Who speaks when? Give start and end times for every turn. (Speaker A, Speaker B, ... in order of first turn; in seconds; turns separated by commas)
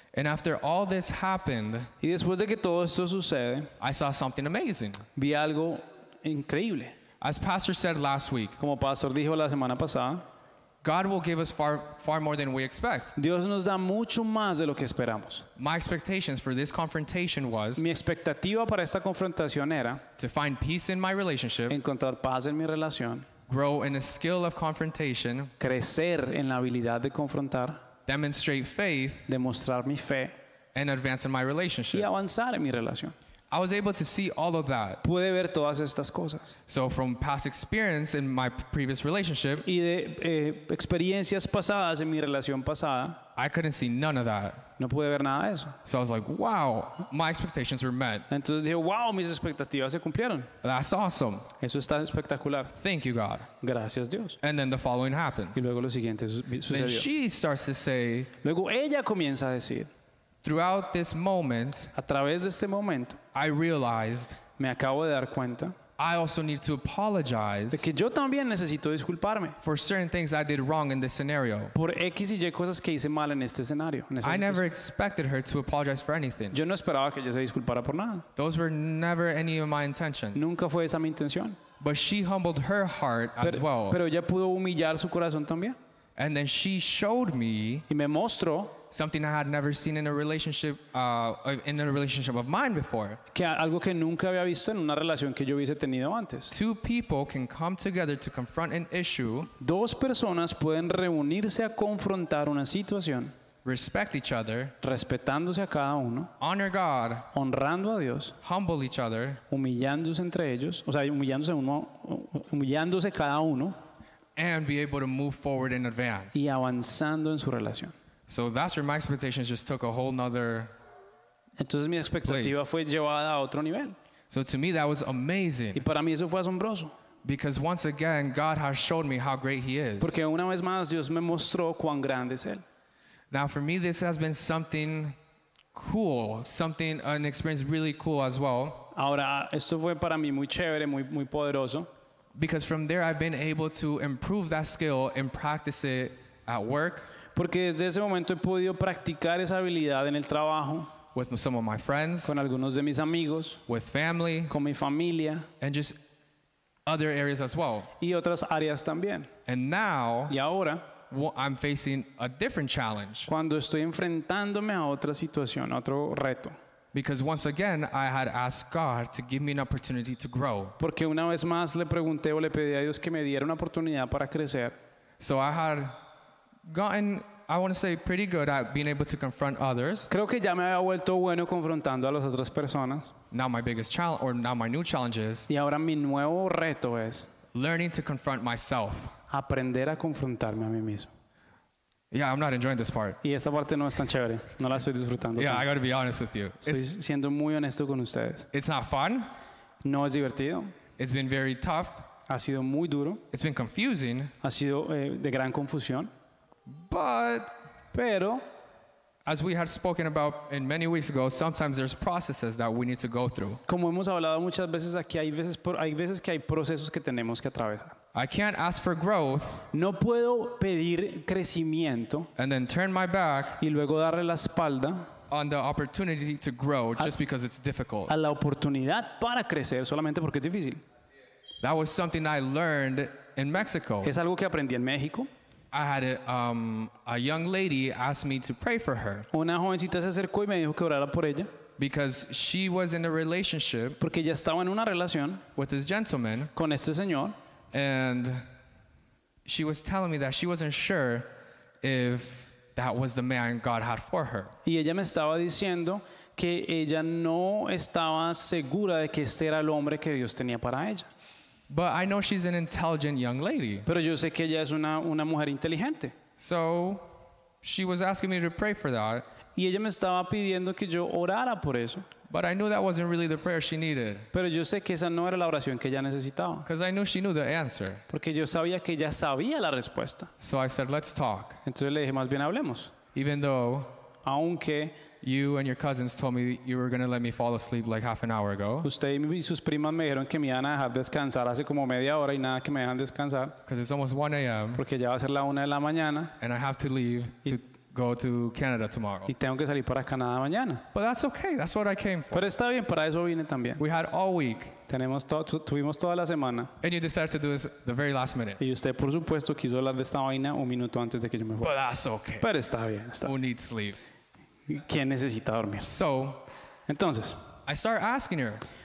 Speaker A: 0.1-1.9, Speaker B: 2.0-3.7, Speaker A: 3.8-5.0, Speaker B: 5.1-6.9, Speaker A: 7.2-8.6, Speaker B: 8.6-10.2, Speaker A: 10.8-13.1, Speaker B: 13.2-15.5, Speaker A: 15.6-17.8, Speaker B: 17.8-20.0, Speaker A: 20.2-21.8, Speaker B: 21.7-23.3, Speaker A: 23.5-25.5, Speaker B: 25.6-27.8, Speaker A: 28.1-29.3, Speaker B: 29.3-30.3, Speaker A: 30.7-32.1, Speaker B: 31.9-33.1, Speaker A: 33.5-35.0, Speaker B: 35.0-36.5, Speaker A: 36.7-39.6, Speaker B: 39.6-43.2, Speaker A: 43.4-44.7, Speaker B: 44.8-45.8, Speaker A: 45.8-48.3, Speaker B: 48.3-50.5, Speaker A: 50.6-51.5, Speaker B: 51.6-52.7, Speaker A: 52.7-53.5, Speaker B: 53.6-54.4, Speaker A: 54.4-55.7, Speaker B: 55.5-57.1, Speaker A: 56.7-58.3, Speaker B: 58.4-59.9, Speaker A: 60.4-61.9, Speaker B: 61.9-63.2, Speaker A: 63.3-64.4, Speaker B: 64.6-65.8, Speaker A: 66.0-67.8, Speaker B: 67.7-69.6, Speaker A: 69.6-71.7, Speaker B: 71.7-74.6, Speaker A: 74.2-76.6, Speaker B: 76.5-78.2, Speaker A: 78.3-80.5, Speaker B: 80.3-81.6, Speaker A: 81.8-84.0, Speaker B: 83.4-85.8, Speaker A: 86.2-87.8, Speaker B: 87.9-88.8, Speaker A: 88.9-93.2, Speaker B: 93.3-96.5, Speaker A: 96.5-99.5, Speaker B: 99.6-103.3, Speaker A: 103.6-104.7, Speaker B: 104.8-106.3, Speaker A: 106.4-107.3, Speaker B: 107.3-108.4, Speaker A: 108.4-109.4, Speaker B: 109.5-113.7, Speaker A: 114.3-116.4, Speaker B: 116.3-117.9, Speaker A: 118.3-120.7, Speaker B: 121.6-123.9, Speaker A: 122.2-122.6, Speaker A: 124.3-125.8, Speaker B: 125.7-126.9, Speaker A: 127.2-130.2, Speaker B: 130.0-132.6, Speaker A: 133.3-135.2, Speaker A: 135.7-138.9, Speaker B: 138.9-141.9, Speaker A: 142.3-147.1, Speaker B: 147.3-150.9, Speaker A: 151.1-152.3, Speaker B: 152.2-153.6, Speaker A: 153.7-154.5, Speaker B: 154.5-155.5, Speaker A: 155.6-156.0, Speaker A: 156.8-157.9, Speaker B: 158.0-159.3, Speaker A: 159.4-160.4, Speaker B: 160.3-160.9, Speaker A: 161.1-163.3, Speaker B: 163.3-166.5, Speaker A: 166.9-170.8, Speaker B: 170.8-174.8, Speaker A: 175.2-176.0, Speaker A: 176.6-180.1, Speaker B: 180.1-183.1, Speaker A: 183.3-185.5, Speaker B: 185.5-187.3, Speaker A: 187.5-189.1, Speaker B: 189.3-191.1, Speaker A: 192.1-193.2, Speaker B: 193.2-195.7, Speaker A: 195.3-196.8, Speaker B: 196.6-198.5, Speaker A: 198.5-199.3, Speaker B: 199.8-200.7, Speaker A: 201.0-202.1, Speaker B: 202.3-203.2, Speaker A: 203.3-204.3, Speaker B: 204.4-206.1, Speaker A: 206.7-207.5, Speaker B: 207.9-208.4, Speaker A: 209.2-213.6, Speaker B: 213.7-217.9, Speaker A: 218.1-219.7, Speaker B: 219.7-222.3, Speaker A: 222.3-223.6, Speaker B: 223.6-225.1, Speaker A: 225.3-228.1, Speaker B: 228.1-230.8, Speaker A: 231.6-234.1, Speaker B: 234.0-235.3, Speaker A: 235.7-239.3, Speaker B: 239.3-241.5, Speaker A: 241.8-244.0, Speaker B: 244.0-245.4, Speaker A: 245.6-246.5, Speaker B: 246.5-247.3, Speaker A: 247.7-248.4, Speaker A: 249.4-251.3, Speaker A: 251.8-254.5, Speaker B: 254.6-261.1, Speaker A: 261.7-263.9, Speaker B: 263.9-266.1, Speaker A: 266.4-267.1, Speaker A: 267.6-269.2, Speaker B: 269.6-272.1, Speaker A: 272.3-274.3, Speaker B: 274.3-276.7, Speaker A: 276.6-278.0, Speaker B: 278.1-280.3, Speaker A: 280.4-281.6, Speaker B: 281.6-282.9, Speaker A: 283.1-283.9, Speaker B: 284.2-284.9, Speaker A: 285.2-288.9, Speaker B: 288.8-293.6, Speaker A: 293.6-294.8, Speaker B: 294.7-296.4, Speaker A: 296.4-299.3, Speaker B: 299.3-300.8, Speaker A: 300.9-302.5, Speaker B: 302.3-303.8, Speaker A: 303.8-304.8, Speaker B: 304.9-306.7, Speaker A: 306.8-308.6, Speaker B: 308.6-311.7, Speaker A: 311.6-312.5, Speaker B: 312.4-313.3, Speaker A: 313.2-314.0, Speaker B: 314.7-315.9, Speaker A: 315.8-316.4, Speaker B: 316.9-317.4, Speaker A: 317.6-318.6